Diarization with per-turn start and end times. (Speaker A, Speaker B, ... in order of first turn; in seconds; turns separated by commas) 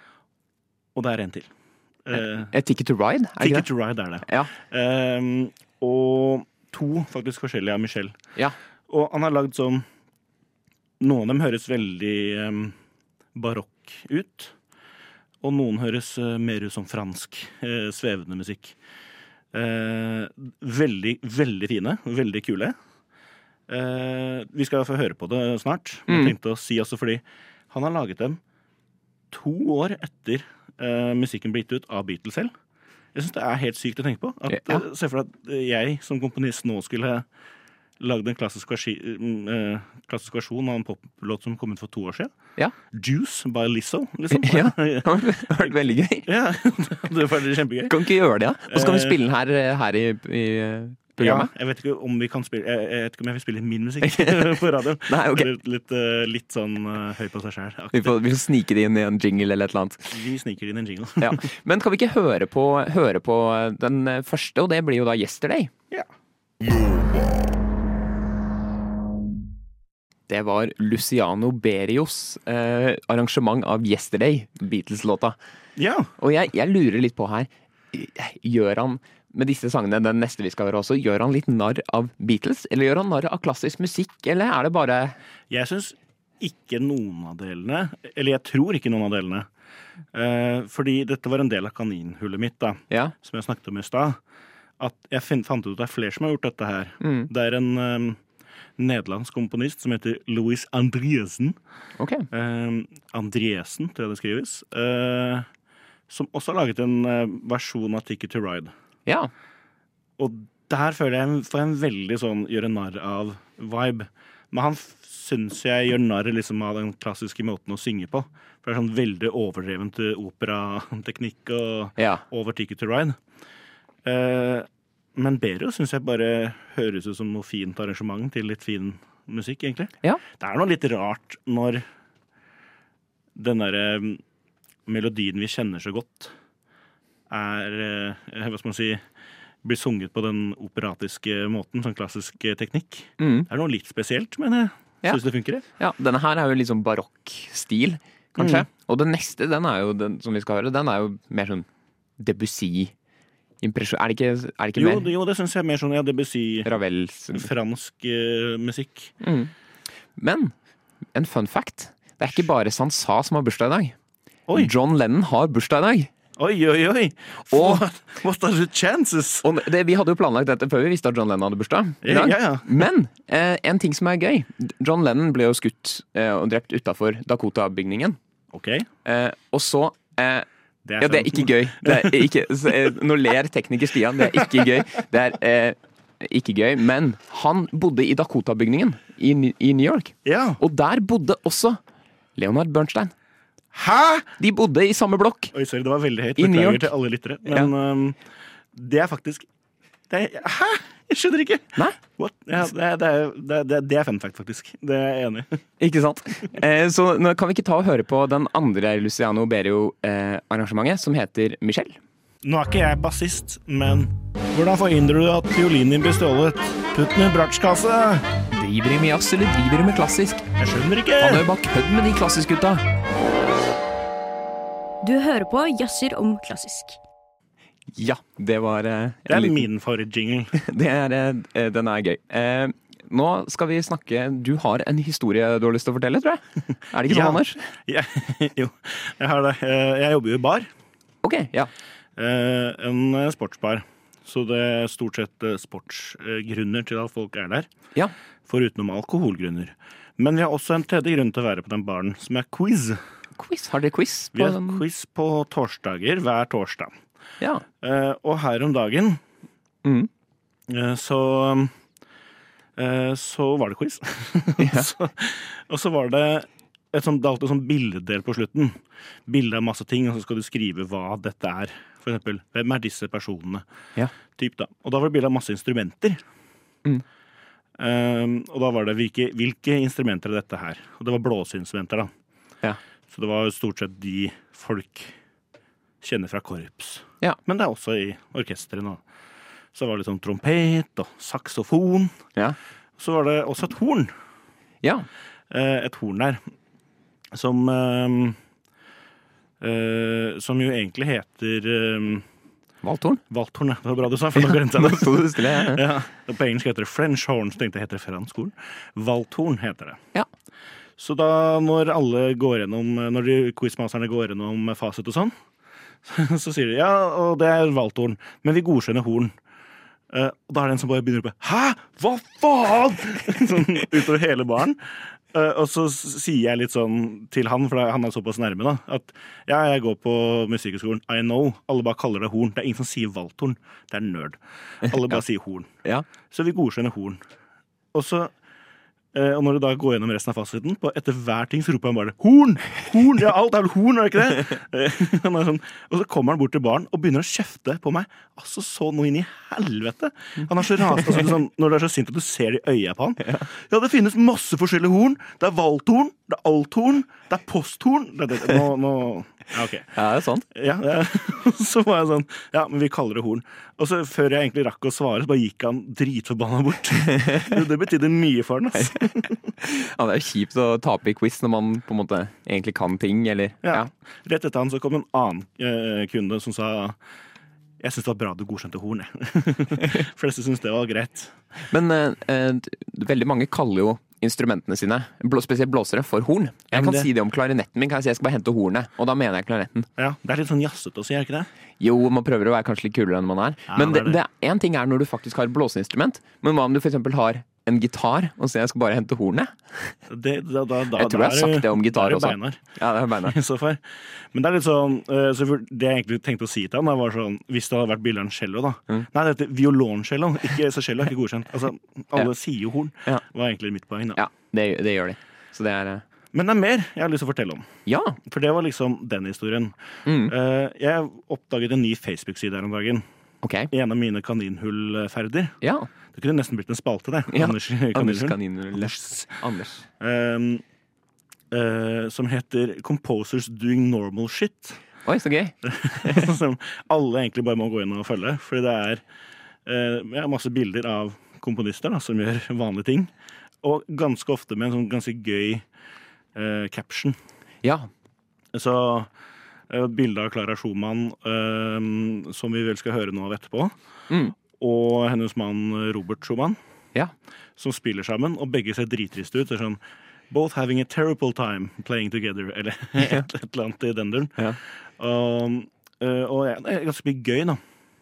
Speaker A: 0.9-1.5, Speaker A: 2.0-2.5, Speaker B: 2.1-3.7, Speaker A: 3.4-8.2, Speaker B: 4.2-4.5, Speaker A: 8.9-9.8, Speaker A: 11.0-12.8, Speaker A: 13.3-14.6, Speaker A: 15.4-18.8, Speaker A: 19.5-22.8, Speaker A: 23.7-28.4, Speaker B: 26.1-26.3, Speaker A: 29.3-32.5, Speaker A: 33.1-37.3, Speaker B: 34.5-34.8, Speaker A: 38.0-42.3, Speaker A: 42.9-45.1, Speaker B: 44.3-46.3, Speaker A: 46.3-48.0, Speaker B: 47.9-51.5, Speaker A: 48.7-49.2, Speaker A: 51.2-58.1, Speaker B: 54.0-55.5, Speaker B: 57.9-60.1, Speaker A: 60.1-61.5, Speaker B: 61.2-65.7, Speaker B: 70.3-75.4, Speaker A: 75.8-76.1, Speaker B: 76.2-85.2, Speaker A: 85.5-89.5, Speaker A: 90.1-94.2, Speaker A: 94.8-98.2, Speaker B: 97.0-97.3, Speaker A: 98.8-101.6, Speaker B: 102.0-102.3, Speaker A: 102.3-105.5, Speaker A: 106.1-108.7, Speaker A: 110.2-123.2, Speaker B: 122.0-122.2, Speaker A: 124.0-131.8, Speaker A: 133.3-134.2, Speaker A: 134.9-136.3, Speaker A: 137.3-139.0, Speaker A: 139.6-145.6, Speaker B: 143.2-143.5, Speaker B: 145.8-151.7, Speaker A: 148.4-148.7, Speaker B: 152.2-152.9, Speaker B: 153.6-155.1, Speaker A: 154.8-156.7, Speaker B: 156.7-157.5, Speaker A: 157.3-159.1, Speaker B: 159.2-159.5, Speaker B: 160.2-160.5, Speaker B: 161.2-163.9, Speaker B: 164.5-166.1, Speaker A: 166.4-169.5, Speaker B: 167.5-167.8, Speaker B: 169.4-178.2, Speaker A: 172.0-172.9, Speaker A: 178.5-178.9, Speaker B: 179.1-180.5, Speaker A: 180.8-182.3, Speaker B: 181.0-191.8, Speaker A: 190.2-190.6, Speaker B: 192.4-193.1, Speaker A: 193.7-194.3, Speaker B: 194.4-195.5, Speaker A: 195.5-198.2, Speaker B: 196.4-196.9, Speaker A: 198.8-199.5, Speaker A: 200.1-205.6, Speaker B: 205.8-212.0, Speaker A: 212.4-218.3, Speaker B: 218.5-220.5, Speaker A: 220.6-221.5, Speaker B: 221.2-222.8, Speaker C: 225.0-227.0, Speaker B: 227.9-229.7, Speaker A: 229.3-230.5, Speaker B: 230.5-237.6, Speaker A: 237.1-240.7, Speaker B: 241.2-241.7, Speaker A: 242.2-247.7, Speaker A: 248.5-253.0, Speaker B: 253.4-254.8, Speaker A: 254.3-256.9, Speaker A: 257.8-259.2, Speaker B: 259.8-260.1, Speaker A: 260.7-261.7, Speaker A: 262.8-273.6, Speaker B: 264.6-264.9, Speaker A: 274.4-276.2, Speaker A: 277.8-282.1, Speaker A: 283.1-285.1, Speaker A: 286.0-289.0, Speaker A: 289.7-292.2, Speaker A: 293.0-294.1, Speaker A: 295.5-296.5, Speaker A: 297.3-298.4, Speaker A: 299.6-302.3, Speaker B: 302.8-303.2, Speaker A: 303.3-310.0, Speaker B: 304.4-305.9, Speaker A: 311.0-315.4, Speaker A: 316.0-319.3, Speaker A: 320.1-335.7, Speaker B: 334.9-335.2, Speaker A: 336.3-337.2, Speaker A: 337.9-338.3, Speaker A: 339.1-359.9, Speaker B: 353.2-353.5, Speaker B: 359.9-360.4, Speaker A: 360.5-369.4, Speaker B: 367.2-367.5, Speaker B: 368.8-373.9, Speaker A: 373.6-377.0, Speaker A: 377.8-381.4, Speaker B: 381.7-389.9, Speaker A: 386.7-387.1, Speaker A: 390.0-391.5, Speaker B: 391.8-399.9, Speaker A: 393.7-394.2, Speaker A: 400.1-402.6, Speaker B: 400.9-403.4, Speaker A: 403.2-414.2, Speaker B: 414.2-416.0, Speaker A: 416.3-417.7, Speaker B: 417.9-418.2, Speaker A: 418.2-423.0, Speaker B: 420.1-420.3, Speaker B: 423.4-423.7, Speaker A: 423.7-425.6, Speaker B: 425.6-425.9, Speaker A: 426.1-429.3, Speaker B: 427.3-429.9, Speaker A: 430.0-430.6, Speaker A: 431.5-434.8, Speaker B: 435.1-436.3, Speaker A: 435.6-439.0, Speaker A: 439.6-443.1, Speaker A: 443.6-445.7, Speaker A: 446.4-447.2, Speaker B: 447.6-447.9, Speaker A: 448.5-449.1, Speaker A: 449.7-453.7, Speaker B: 454.1-454.4, Speaker A: 454.5-456.6, Speaker A: 457.6-464.4, Speaker B: 463.0-463.3, Speaker A: 465.0-467.6